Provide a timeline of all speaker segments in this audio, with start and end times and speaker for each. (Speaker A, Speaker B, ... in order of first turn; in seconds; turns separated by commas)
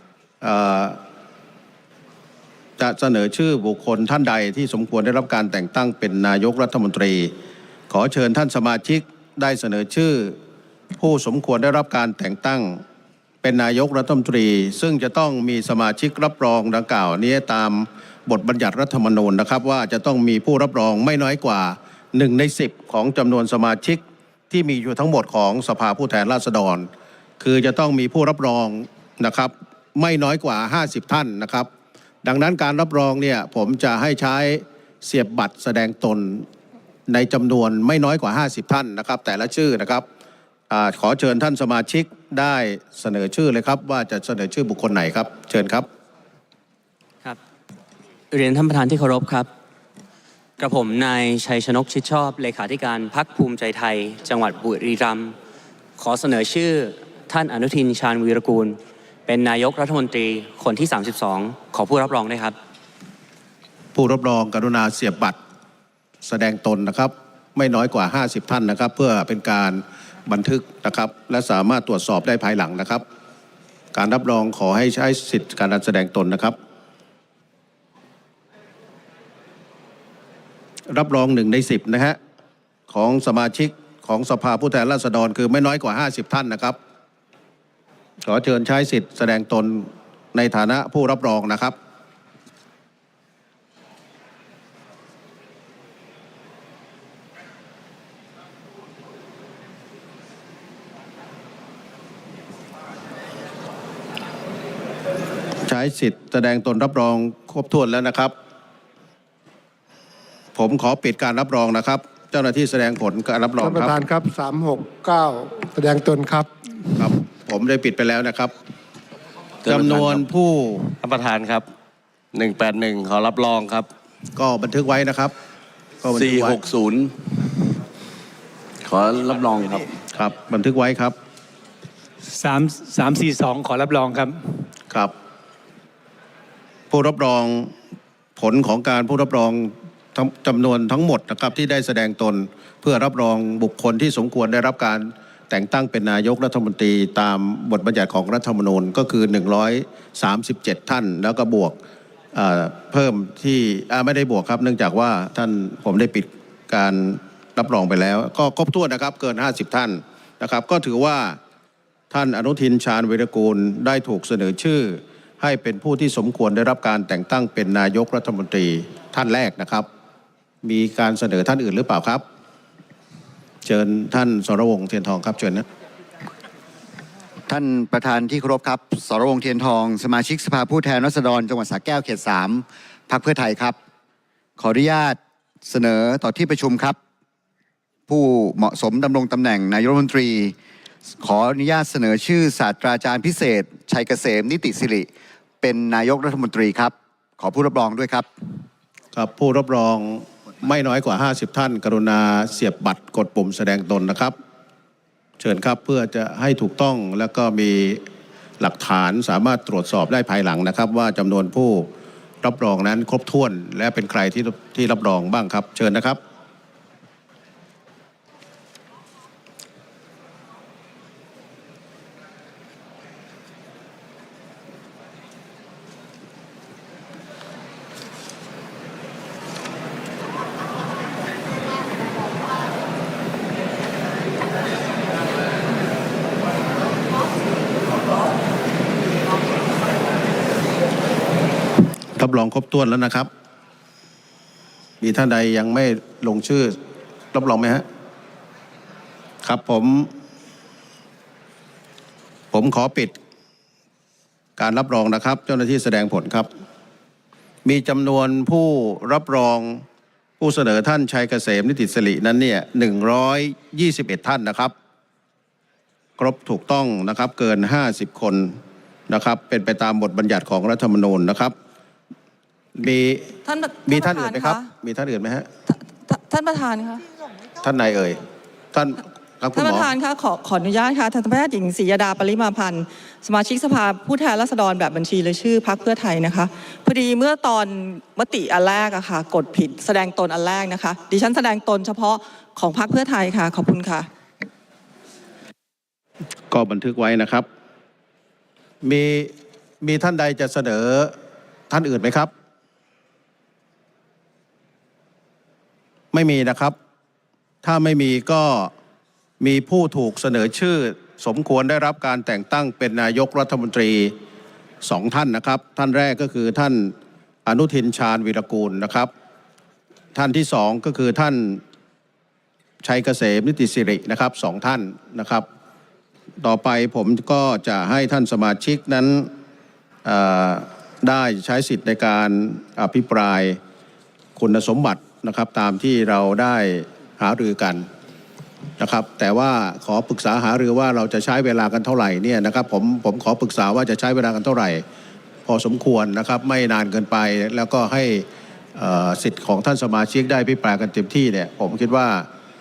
Speaker A: 0.4-1.0, Speaker A: 2.8-7.3, Speaker A: 7.9-10.4, Speaker A: 11.0-12.8, Speaker A: 13.4-26.9, Speaker A: 27.4-31.7, Speaker A: 32.2-36.5, Speaker A: 37.1-40.0, Speaker A: 40.7-45.9, Speaker B: 48.3-49.5, Speaker B: 50.6-55.3, Speaker B: 56.0-62.5, Speaker A: 63.9-65.4, Speaker A: 66.2-73.0, Speaker A: 73.9-76.5, Speaker A: 80.9-82.2, Speaker A: 82.9-86.8, Speaker A: 88.2-91.7, Speaker A: 105.7-108.3, Speaker A: 110.5-114.0, Speaker C: 113.6-116.5, Speaker A: 117.0-118.5, Speaker D: 119.6-120.2, Speaker A: 119.7-120.9, Speaker D: 121.0-121.7, Speaker D: 122.3-123.9, Speaker A: 124.3-125.3, Speaker A: 126.0-126.6, Speaker D: 126.1-127.5, Speaker D: 128.8-129.9, Speaker A: 130.1-131.1, Speaker E: 132.3-134.7, Speaker A: 136.9-137.7, Speaker A: 138.4-151.8, Speaker A: 152.3-161.4, Speaker A: 162.1-169.9, Speaker A: 170.6-172.2, Speaker A: 173.6-175.6, Speaker F: 177.5-183.8, Speaker F: 184.6-187.0, Speaker F: 188.1-190.5, Speaker F: 191.2-195.1, Speaker F: 195.6-198.3, Speaker A: 199.1-204.3, Speaker A: 205.4-208.0, Speaker A: 208.6-211.9, Speaker A: 212.4-216.2, Speaker A: 242.2-243.3, Speaker A: 245.0-246.7, Speaker A: 247.3-247.8, Speaker A: 249.4-250.1, Speaker A: 252.5-253.1, Speaker A: 254.6-256.5, Speaker A: 257.6-259.8, Speaker A: 260.4-264.7, Speaker A: 266.2-271.5, Speaker A: 272.8-273.3, Speaker G: 273.4-274.7, Speaker A: 273.9-275.5, Speaker G: 275.7-277.0, Speaker A: 277.6-278.2, Speaker A: 278.7-279.9, Speaker G: 279.5-294.1, Speaker A: 296.5-297.4, Speaker A: 298.8-301.1, Speaker A: 301.7-302.3, Speaker A: 306.1-306.8, Speaker A: 307.6-308.7, Speaker A: 309.4-314.1, Speaker A: 314.8-316.9, Speaker A: 317.4-319.1, Speaker A: 320.1-321.6, Speaker A: 322.8-325.4, Speaker A: 326.4-329.3, Speaker A: 330.0-333.6, Speaker A: 334.4-337.9, Speaker A: 338.8-344.8, Speaker A: 345.4-352.3